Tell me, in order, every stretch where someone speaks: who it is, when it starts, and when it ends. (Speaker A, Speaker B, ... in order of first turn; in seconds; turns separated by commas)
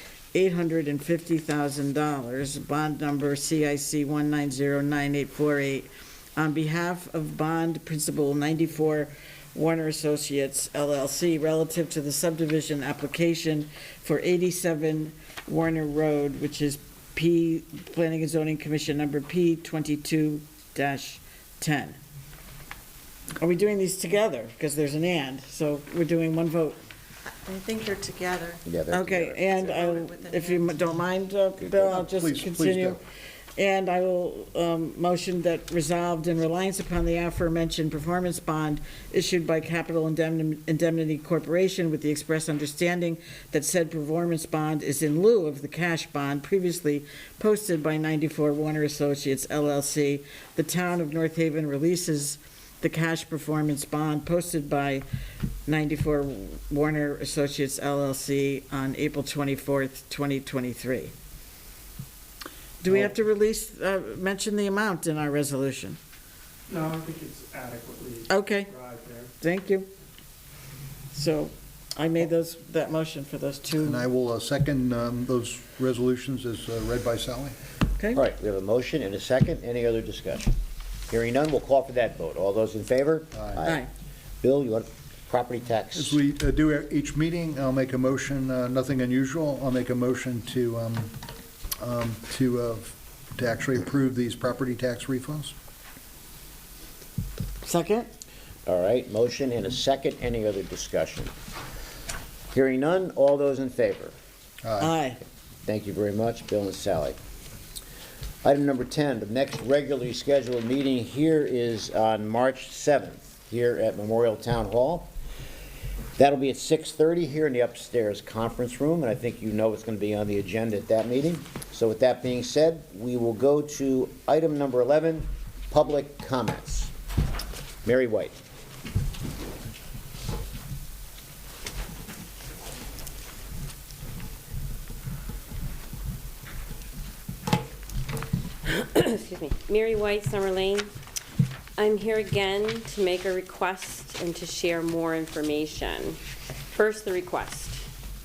Speaker A: 0.3-22.0, Speaker A: 23.4-26.8, Speaker B: 27.3-28.6, Speaker C: 28.6-29.9, Speaker A: 28.9-33.0, Speaker B: 29.8-30.6, Speaker C: 31.6-32.0, Speaker D: 31.9-33.0, Speaker A: 33.6-55.0, Speaker A: 55.6-61.1, Speaker A: 62.8-66.0, Speaker E: 66.7-69.3, Speaker A: 68.3-68.7, Speaker A: 69.4-69.9, Speaker A: 71.1-74.0, Speaker D: 73.8-77.5, Speaker C: 78.1-80.5, Speaker C: 81.1-83.8, Speaker D: 83.3-83.6, Speaker C: 84.4-86.2, Speaker D: 85.9-91.2, Speaker D: 91.8-95.5, Speaker A: 97.6-98.1, Speaker C: 98.7-101.3, Speaker C: 102.5-104.2, Speaker D: 104.6-104.9, Speaker A: 104.8-105.2, Speaker C: 105.6-107.2, Speaker C: 108.4-115.1, Speaker C: 116.2-126.9, Speaker C: 127.8-128.3, Speaker F: 138.7-140.9, Speaker F: 141.8-146.2, Speaker F: 146.7-147.8